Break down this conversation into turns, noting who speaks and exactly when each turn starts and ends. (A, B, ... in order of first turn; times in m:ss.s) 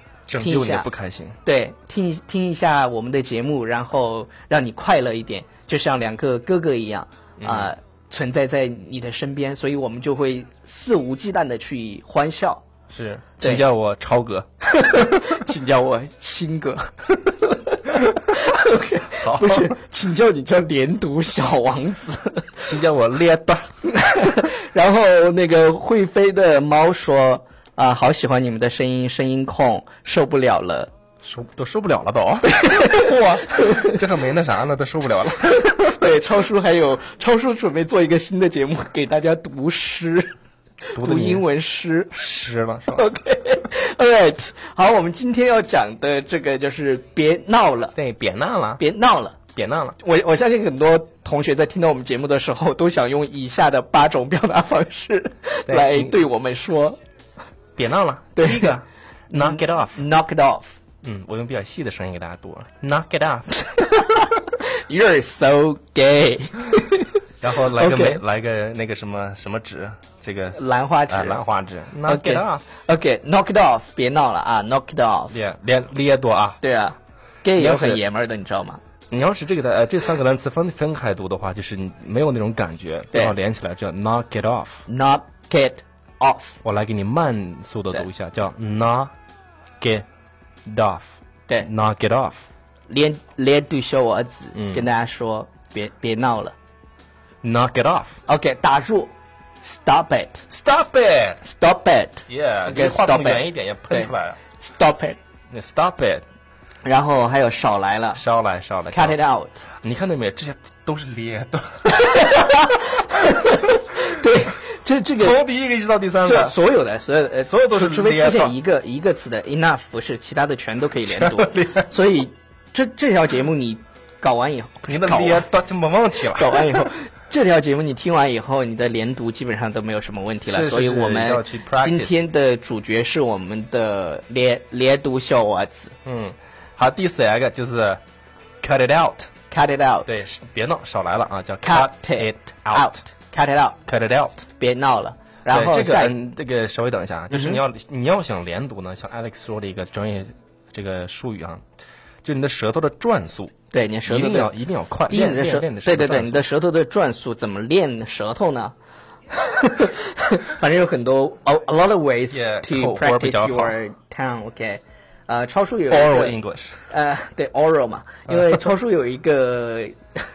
0:00.3-0:01.4 A
0:00.4-0:00.9 B
0:01.4-0:12.6 B
0:07.4-0:07.7 A
0:12.9-0:14.5 A
0:14.6-0:22.7 B
0:19.1-0:19.8 A
0:22.6-0:23.7 A
0:23.8-0:30.9 B
0:31.2-0:36.1 A
0:32.5-0:34.0 B
0:35.6-0:40.3 B
0:40.9-0:42.2 B
0:41.0-0:41.4 A
0:42.1-0:43.0 A
0:42.9-0:48.0 B
0:47.9-0:48.8 A
0:48.8-0:49.4 B
0:49.5-0:50.0 A
0:50.0-0:57.0 B
0:55.7-0:56.2 A
0:57.8-1:00.0 A
0:58.4-0:58.8 B
0:59.3-1:00.8 B
1:01.0-1:03.7 A
1:03.6-1:08.2 B
1:07.4-1:12.6 A
1:10.5-1:11.4 B
1:12.0-1:15.4 B
1:15.3-1:16.6 A
1:16.6-1:18.8 B
1:17.6-1:18.0 A
1:19.1-1:24.8 A
1:24.9-1:26.6 B
1:26.6-1:29.1 A
1:29.8-1:30.0 A
1:30.6-1:32.5 A
1:32.9-1:36.5 B
1:34.5-1:34.8 A
1:37.4-1:38.2 A
1:38.2-1:40.4 B
1:40.5-1:41.4 A
1:41.4-1:45.2 B
1:42.3-1:44.4 A
1:45.5-1:46.2 A
1:46.8-1:48.2 B
1:48.2-1:49.2 A
1:48.9-1:49.6 B
1:49.8-1:52.4 A
1:51.9-1:55.4 B
1:55.2-1:56.6 A
1:56.2-2:05.4 B
1:57.4-1:58.6 A
2:01.0-2:01.9 A
2:04.9-2:06.9 A
2:06.2-2:15.9 B
2:10.5-2:12.2 A
2:16.0-2:18.0 A
2:18.6-2:19.3 A
2:19.5-2:20.1 B
2:20.0-2:23.0 A
2:21.6-2:23.8 B
2:23.8-2:24.4 A
2:24.6-2:26.1 B
2:25.5-2:31.6 A
2:27.3-2:27.6 B
2:32.2-2:33.5 A
2:33.7-2:34.5 B
2:34.0-2:36.4 A
2:35.1-2:38.7 B
2:39.3-2:50.2 B
2:42.3-2:43.8 A
2:45.9-2:46.8 A